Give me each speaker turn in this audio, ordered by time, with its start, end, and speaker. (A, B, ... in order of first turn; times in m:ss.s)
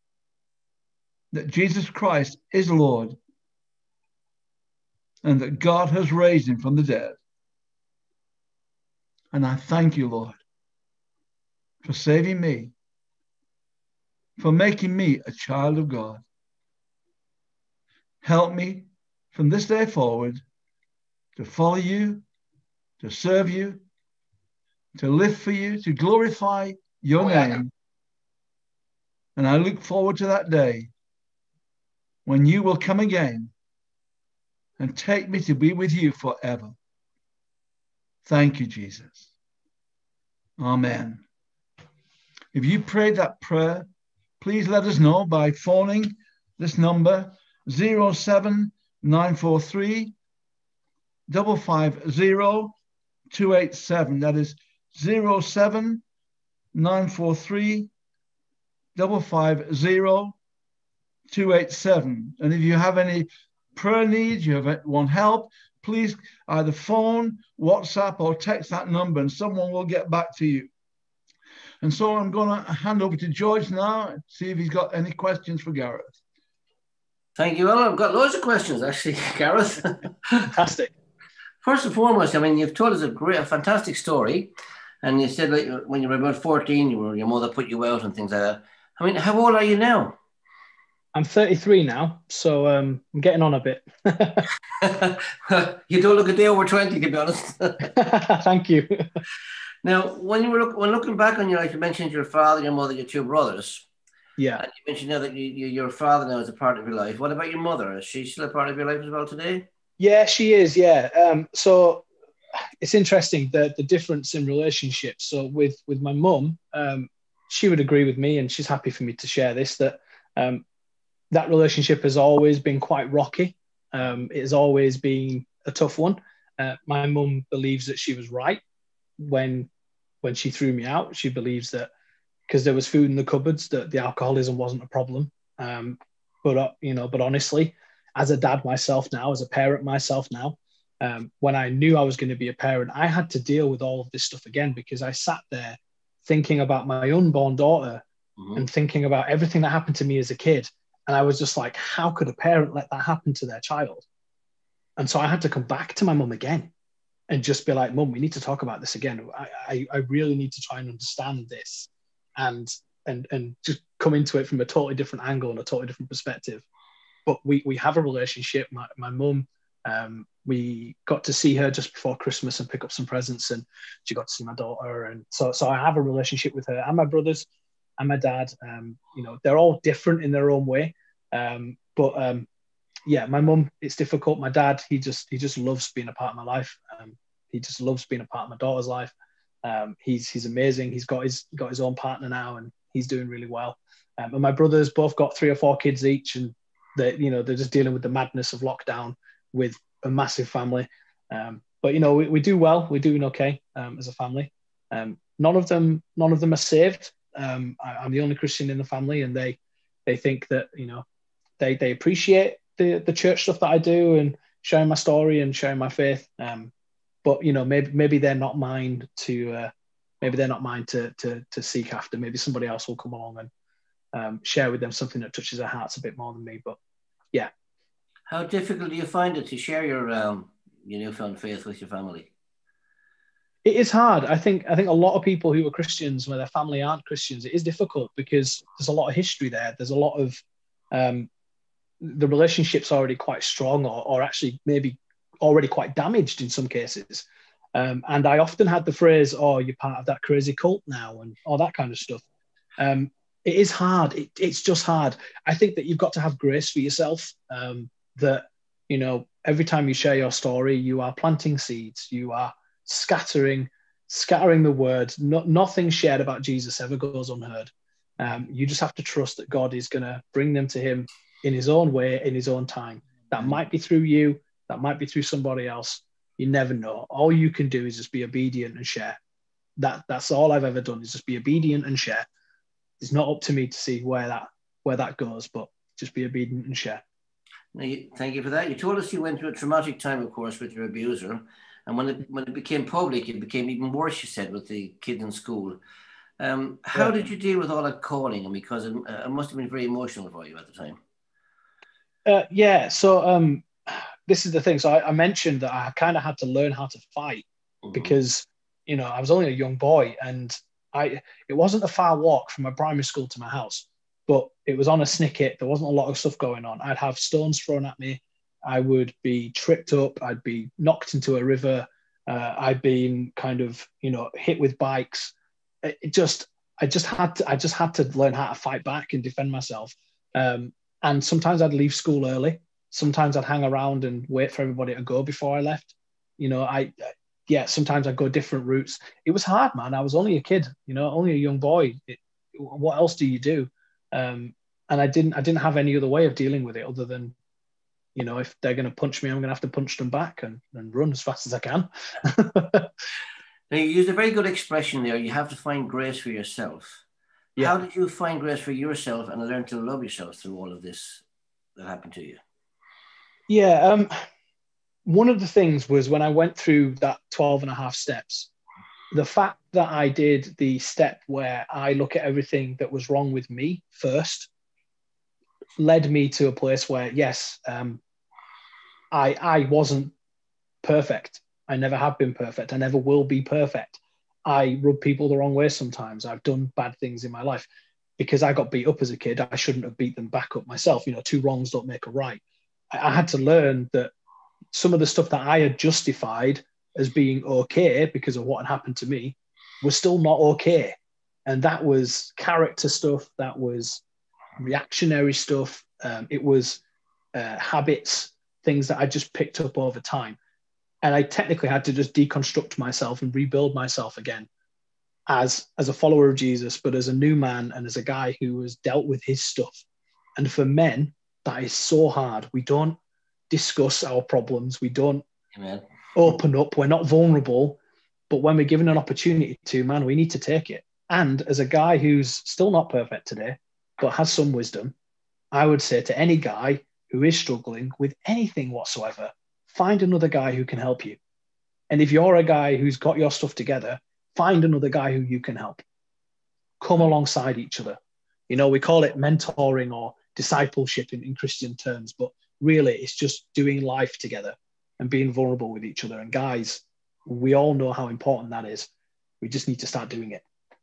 0:01.3-0:03.2 A
0:05.2-0:07.2 A
0:09.3-0:10.4 A
0:11.8-0:12.7 A
0:14.4-0:16.2 A
0:18.2-0:20.4 A
0:21.4-0:22.2 A
0:23.0-0:23.8 A
0:25.0-0:27.7 A
0:27.2-0:27.6 B
0:29.4-0:30.9 A
0:32.2-0:33.5 A
0:34.8-0:36.7 A
0:38.2-0:39.2 A
0:40.6-0:41.2 A
0:42.5-0:43.9 A
0:44.4-0:50.1 A
0:51.3-0:52.7 A
0:53.3-0:56.0 A
0:56.7-0:57.9 A
0:58.9-1:00.4 A
1:01.3-1:10.7 A
1:11.8-1:16.1 A
1:17.4-1:20.3 B
1:20.4-1:20.9 C
1:21.6-1:24.5 B
1:25.0-1:30.2 B
1:31.1-1:34.5 C
1:34.8-1:37.9 B
1:37.8-1:39.2 C
1:39.8-1:43.9 B
1:44.4-1:44.6 C
1:44.6-1:49.6 B
1:50.0-1:52.0 C
1:52.8-2:00.6 C
2:01.3-2:08.6 C
2:09.2-2:09.7 C
2:10.2-2:11.9 C
2:12.5-2:28.0 C
2:28.6-2:34.0 C
2:35.0-2:36.7 C
2:37.3-2:46.6 C
2:47.2-2:57.5 C
2:58.0-3:02.5 C
3:03.1-3:09.1 C
3:09.6-3:31.0 C
3:31.6-3:36.7 C
3:37.2-3:39.7 C
3:40.2-3:43.5 C
3:44.1-3:46.8 C
3:48.3-3:52.3 B
3:53.6-4:01.3 C
4:02.0-4:12.2 C
4:12.8-4:39.2 C
4:39.8-4:42.2 C
4:43.0-4:47.0 C
4:47.7-4:55.8 B
4:56.4-5:01.0 B
4:56.9-4:57.3 C
5:02.2-5:36.9 C
5:07.9-5:08.1 B
5:37.5-5:47.4 C
5:48.2-5:52.9 C
5:53.7-5:57.0 B
5:57.6-6:01.2 B
6:01.8-6:02.4 B
6:03.5-6:04.2 C
6:05.0-6:08.5 C
6:09.1-6:14.5 C
6:15.8-6:18.0 C
6:19.1-6:20.1 C
6:20.8-6:27.7 C
6:28.2-6:32.4 C
6:32.9-6:34.1 C
6:34.7-6:44.0 C
6:44.6-6:46.8 C
6:47.3-6:50.4 C
6:51.0-6:54.5 C
6:55.3-6:59.8 C
7:00.4-7:03.0 C
7:03.5-7:05.2 C
7:05.5-7:05.8 B
7:06.1-7:07.8 C
7:08.3-7:14.9 C
7:15.5-7:21.2 C
7:21.9-7:25.8 C
7:26.8-7:28.0 C
7:28.5-7:38.9 C
7:39.4-7:40.4 C